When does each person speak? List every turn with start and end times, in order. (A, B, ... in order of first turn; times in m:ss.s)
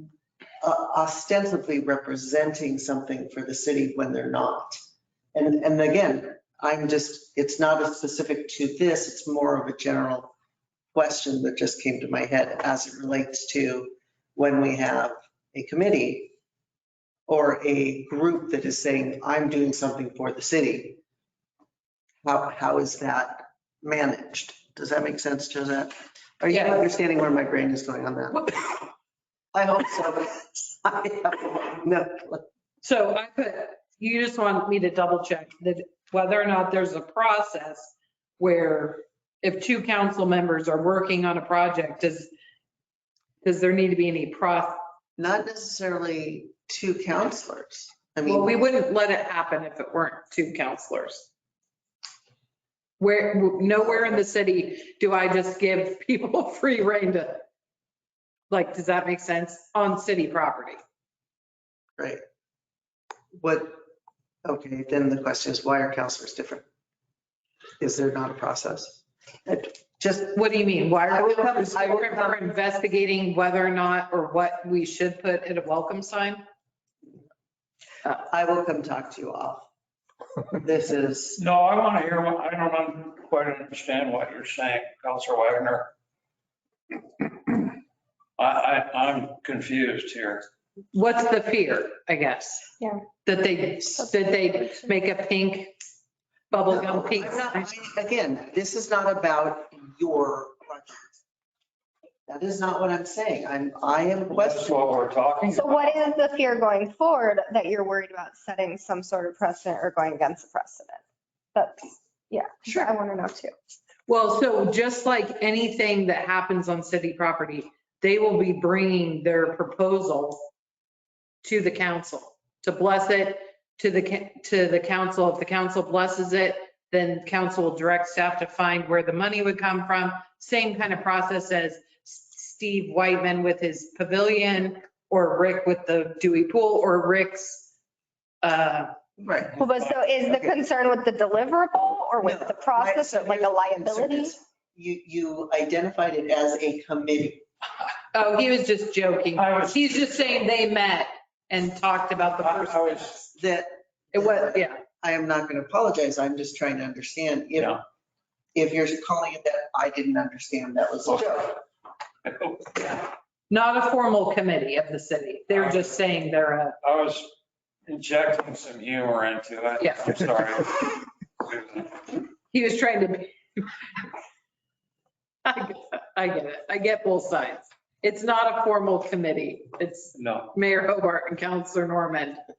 0:00.6-0:04.8 A
0:05.3-0:10.3 A
0:10.9-0:16.3 A
0:17.3-0:21.0 A
0:22.2-0:28.4 A
0:26.5-0:26.8 B
0:28.3-0:28.6 B
0:29.5-0:32.4 A
0:32.8-0:42.3 B
0:43.4-0:44.8 B
0:45.2-0:48.6 A
0:48.2-0:51.3 B
0:53.0-0:57.4 B
0:58.5-1:00.8 B
1:03.4-1:03.8 A
1:04.4-1:06.6 A
1:07.8-1:10.4 A
1:10.3-1:16.4 B
1:11.1-1:12.4 A
1:18.3-1:19.7 A
1:20.5-1:21.4 A
1:21.4-1:25.9 C
1:28.4-1:30.4 C
1:30.9-1:32.7 B
1:32.8-1:33.0 D
1:33.2-1:35.7 B
1:36.5-1:37.6 B
1:36.7-1:41.2 A
1:42.3-1:44.8 A
1:44.3-1:46.0 C
1:45.5-1:51.0 D
1:51.5-1:53.5 D
1:54.1-2:00.4 B
2:01.4-2:17.7 B
2:18.4-2:18.9 B
2:19.2-2:19.6 A
2:19.5-2:20.0 C
2:19.6-2:24.3 D
2:22.2-2:27.4 A
2:28.1-2:33.3 B
2:29.4-2:30.1 C
2:32.4-2:33.1 C
2:33.4-2:37.8 A
2:34.1-2:34.8 B
2:38.5-2:41.6 A
2:41.0-2:41.3 C
2:42.2-2:43.0 C
2:43.5-2:46.8 B
2:45.5-2:45.9 C
2:46.8-2:47.3 C
2:47.9-2:52.0 C
2:49.8-2:50.2 B
2:52.5-2:54.0 B
2:55.4-3:02.4 B
3:00.1-3:00.5 C